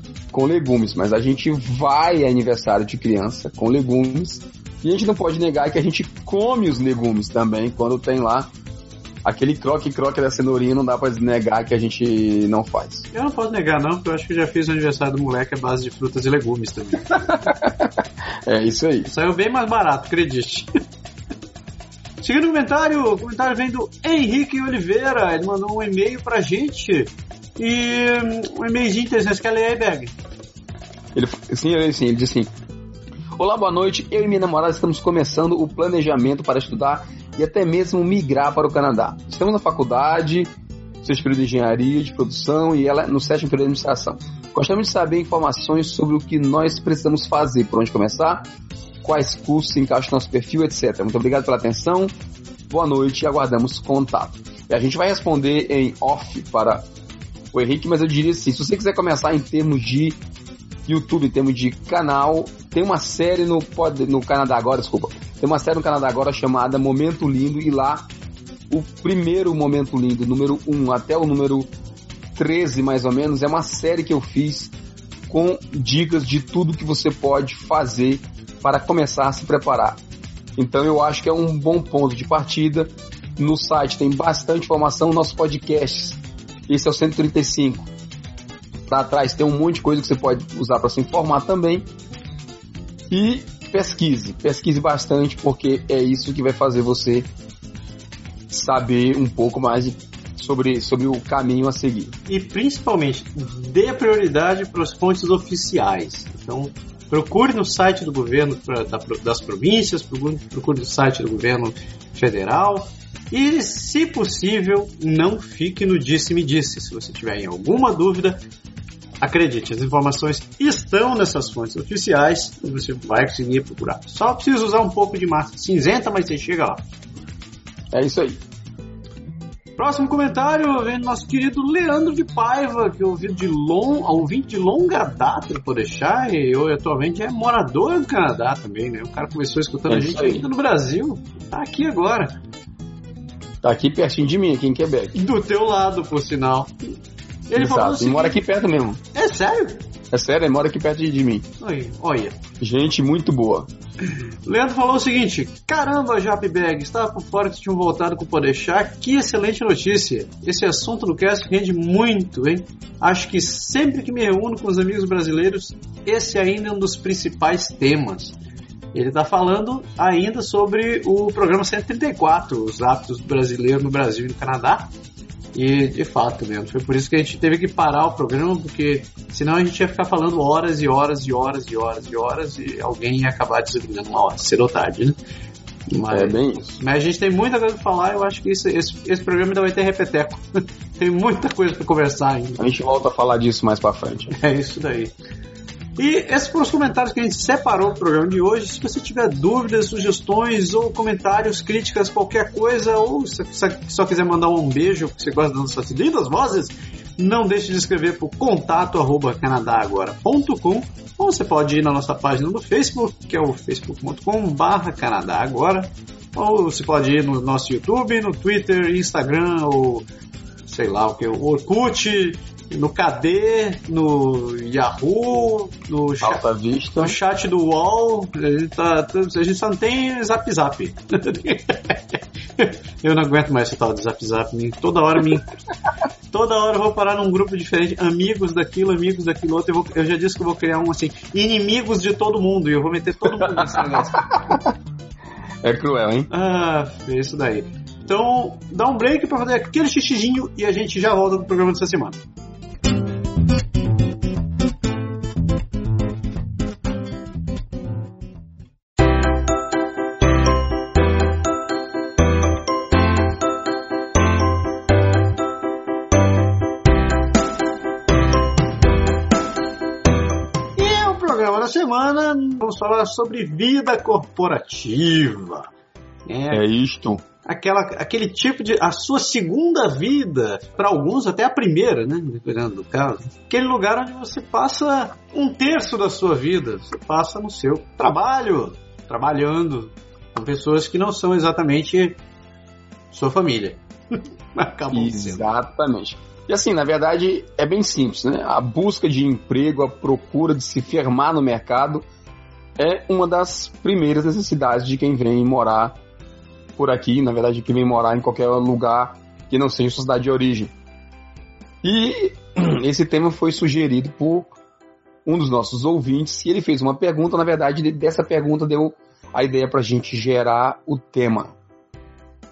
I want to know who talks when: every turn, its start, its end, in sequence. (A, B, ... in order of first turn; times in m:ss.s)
0:00.3-0:08.5 A
0:09.2-0:13.1 A
0:13.1-0:17.4 B
0:17.1-0:19.1 A
0:19.1-0:20.7 B
0:22.2-0:30.2 B
0:31.1-0:32.5 A
0:33.4-0:40.5 A
0:41.0-0:48.5 A
0:49.0-0:52.1 A
0:52.7-0:56.8 A
0:57.5-1:00.2 A
1:00.9-1:08.1 A
1:08.7-1:11.7 A
1:12.4-1:14.7 A
1:15.3-1:20.0 A
1:20.6-1:27.9 A
1:28.9-1:31.9 A
1:33.1-1:37.3 A
1:38.5-1:42.1 A
1:42.3-1:58.4 B
1:59.2-2:06.8 B
2:07.9-2:08.4 A
2:09.8-2:22.3 B
2:19.9-2:20.4 A
2:23.6-2:25.2 A
2:25.1-2:26.7 B
2:27.5-2:28.4 B
2:27.6-2:29.0 A
2:29.1-2:29.8 B
2:30.1-2:31.5 A
2:31.6-2:32.4 B
2:32.6-2:33.7 A
2:34.5-2:48.4 B
2:48.9-2:54.9 B
2:55.5-3:05.2 B
3:05.9-3:12.6 B
3:06.1-3:06.8 A
3:12.6-3:14.3 A
3:14.3-3:15.1 B
3:16.0-3:40.1 B
3:40.7-3:46.5 B
3:46.2-3:47.2 A
3:47.0-3:55.5 B
3:56.3-4:04.2 B
4:03.4-4:04.8 A
4:05.6-4:06.3 A
4:06.3-4:12.2 B
4:30.8-4:35.7 B
4:36.3-4:36.6 B
4:36.5-4:37.2 A
4:37.4-4:52.2 B
4:53.1-4:55.5 B
4:54.9-5:02.1 A
5:02.8-5:06.0 A
5:06.8-5:10.7 A
5:11.8-5:14.5 A
5:15.3-5:21.6 A